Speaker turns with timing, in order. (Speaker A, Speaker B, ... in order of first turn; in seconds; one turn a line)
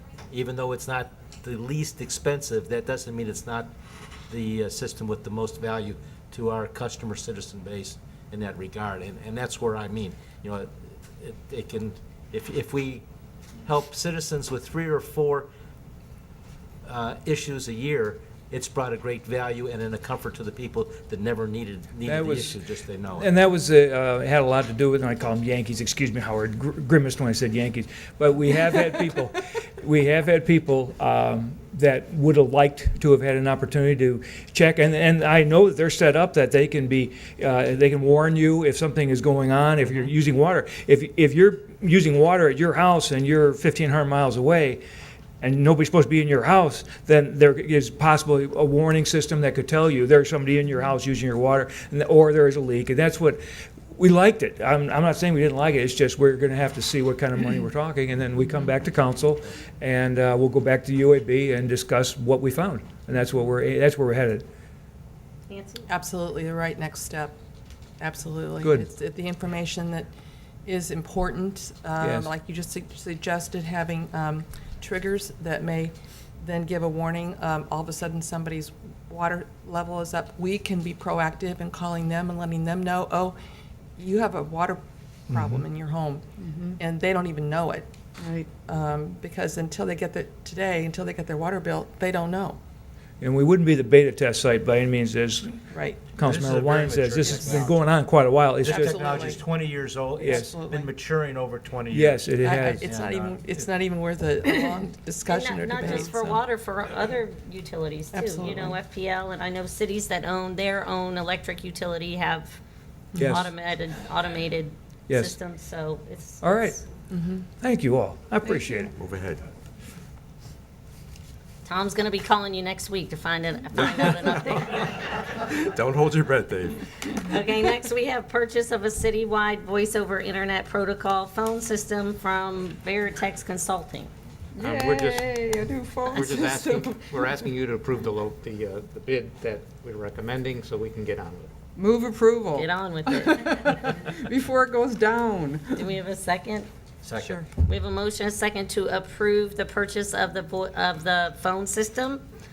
Speaker A: 0.3-3.7
Speaker A: 4.3-13.1
Speaker A: 13.7-15.5
Speaker A: 16.8-23.3
Speaker B: 22.1-22.5
Speaker B: 23.2-44.8
Speaker B: 45.4-53.4
Speaker B: 54.0-64.5
Speaker C: 65.5-65.9
Speaker D: 65.9-67.3
Speaker D: 68.0-70.1
Speaker B: 68.6-68.9
Speaker D: 70.7-83.4
Speaker B: 72.0-72.3
Speaker D: 84.0-86.3
Speaker B: 85.3-85.6
Speaker E: 86.4-86.8
Speaker D: 86.8-87.9
Speaker E: 88.2-88.5
Speaker D: 88.5-92.6
Speaker B: 93.2-99.0
Speaker D: 95.7-96.1
Speaker A: 96.2-97.8
Speaker D: 97.3-97.7
Speaker A: 98.6-103.7
Speaker D: 98.7-99.4
Speaker B: 100.2-100.5
Speaker D: 100.2-100.9
Speaker B: 101.9-102.8
Speaker D: 102.4-106.4
Speaker C: 105.3-112.6
Speaker D: 108.1-108.8
Speaker C: 113.2-116.8
Speaker B: 113.2-113.5
Speaker B: 115.1-115.3
Speaker B: 116.4-116.8
Speaker D: 117.1-117.4
Speaker B: 117.6-119.0
Speaker F: 119.0-119.4
Speaker C: 121.7-125.0
Speaker F: 123.9-124.4
Speaker F: 125.4-126.8
Speaker C: 127.2-134.1
Speaker E: 134.6-137.4
Speaker G: 134.6-135.4
Speaker G: 136.1-141.5
Speaker E: 141.8-145.8
Speaker C: 142.5-143.7
Speaker C: 145.8-146.7
Speaker A: 147.0-147.4
Speaker C: 147.5-152.2